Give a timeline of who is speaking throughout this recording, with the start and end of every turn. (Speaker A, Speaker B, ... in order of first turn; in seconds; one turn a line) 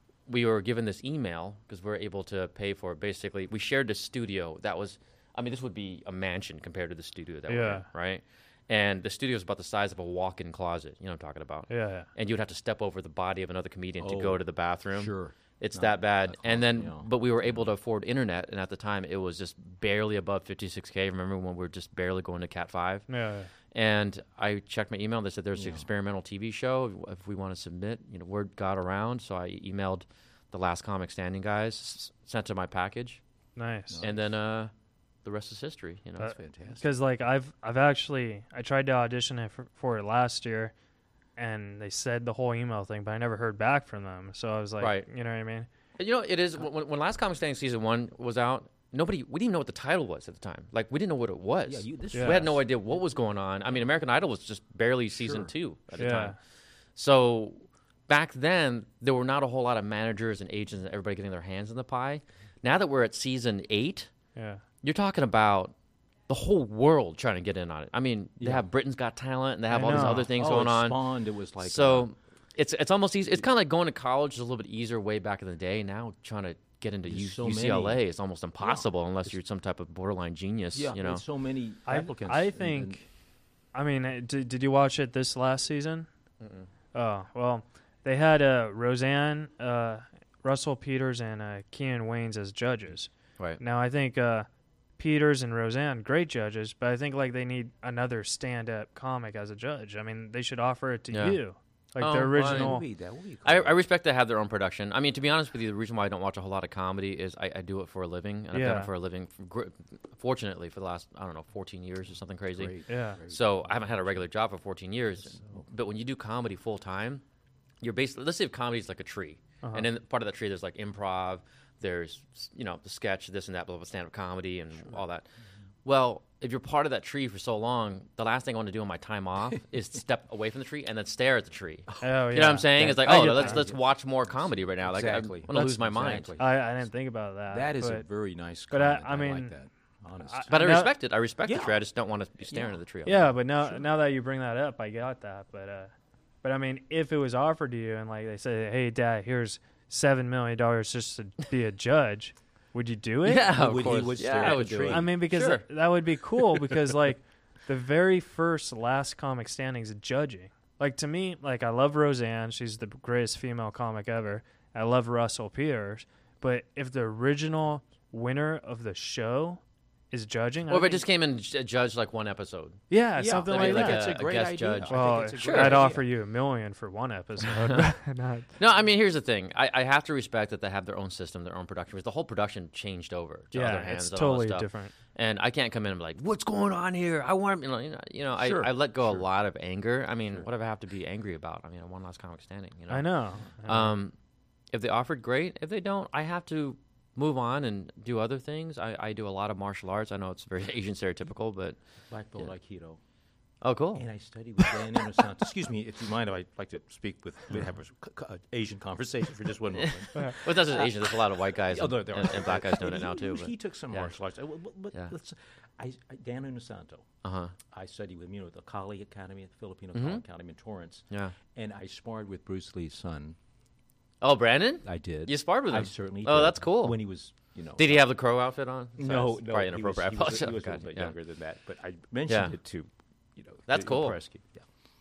Speaker A: 0.3-23.1
Speaker B: 7.5-7.9
Speaker B: 11.7-12.1
Speaker C: 14.0-17.7
Speaker B: 23.1-23.5
Speaker A: 23.7-33.2
Speaker C: 25.5-25.9
Speaker B: 33.6-34.0
Speaker C: 33.9-34.3
Speaker A: 34.0-34.7
Speaker A: 35.2-36.4
Speaker B: 36.2-40.7
Speaker C: 36.2-36.9
Speaker B: 41.4-45.7
Speaker A: 44.8-45.1
Speaker A: 46.0-56.4
Speaker C: 51.7-52.7
Speaker B: 52.1-52.4
Speaker C: 55.1-55.5
Speaker B: 56.0-56.4
Speaker A: 57.0-64.1
Speaker B: 64.3-64.6
Speaker A: 64.8-65.7
Speaker A: 66.3-71.0
Speaker C: 68.4-68.7
Speaker B: 69.7-70.3
Speaker C: 69.8-72.1
Speaker A: 71.6-81.2
Speaker C: 77.1-78.0
Speaker C: 78.6-79.3
Speaker C: 80.7-83.0
Speaker B: 81.9-83.0
Speaker B: 83.7-86.1
Speaker A: 86.4-86.7
Speaker B: 86.9-102.9
Speaker A: 101.1-101.4
Speaker A: 102.0-102.8
Speaker C: 102.4-103.8
Speaker A: 103.4-117.2
Speaker B: 108.5-108.9
Speaker C: 112.5-114.2
Speaker B: 112.9-113.2
Speaker C: 115.4-115.7
Speaker A: 117.8-125.2
Speaker A: 125.8-136.4
Speaker C: 131.9-133.8
Speaker B: 132.0-133.6
Speaker C: 134.4-136.7
Speaker B: 136.4-138.1
Speaker C: 137.5-140.5
Speaker B: 138.7-139.6
Speaker B: 140.3-140.9
Speaker A: 140.5-143.3
Speaker C: 141.4-141.8
Speaker C: 142.5-142.8
Speaker B: 143.1-145.9
Speaker B: 146.4-153.5
Speaker A: 153.2-155.7
Speaker C: 153.5-155.1
Speaker B: 154.8-171.1
Speaker A: 170.7-172.8
Speaker B: 172.9-174.1
Speaker C: 173.2-176.1
Speaker A: 173.4-175.9
Speaker B: 174.9-178.5
Speaker A: 177.5-177.9
Speaker A: 178.6-193.1
Speaker B: 183.5-184.9
Speaker C: 188.4-189.2
Speaker B: 192.9-193.9
Speaker A: 193.7-194.1
Speaker A: 194.7-201.8
Speaker C: 202.1-203.0
Speaker A: 203.6-204.1
Speaker C: 203.9-217.1
Speaker A: 209.8-214.1
Speaker A: 217.2-217.5
Speaker C: 217.7-223.4
Speaker A: 219.9-220.2
Speaker A: 221.1-221.4
Speaker A: 224.2-227.0
Speaker C: 224.8-228.1
Speaker A: 227.8-231.1
Speaker C: 229.0-234.7
Speaker A: 232.3-232.6
Speaker A: 233.7-234.2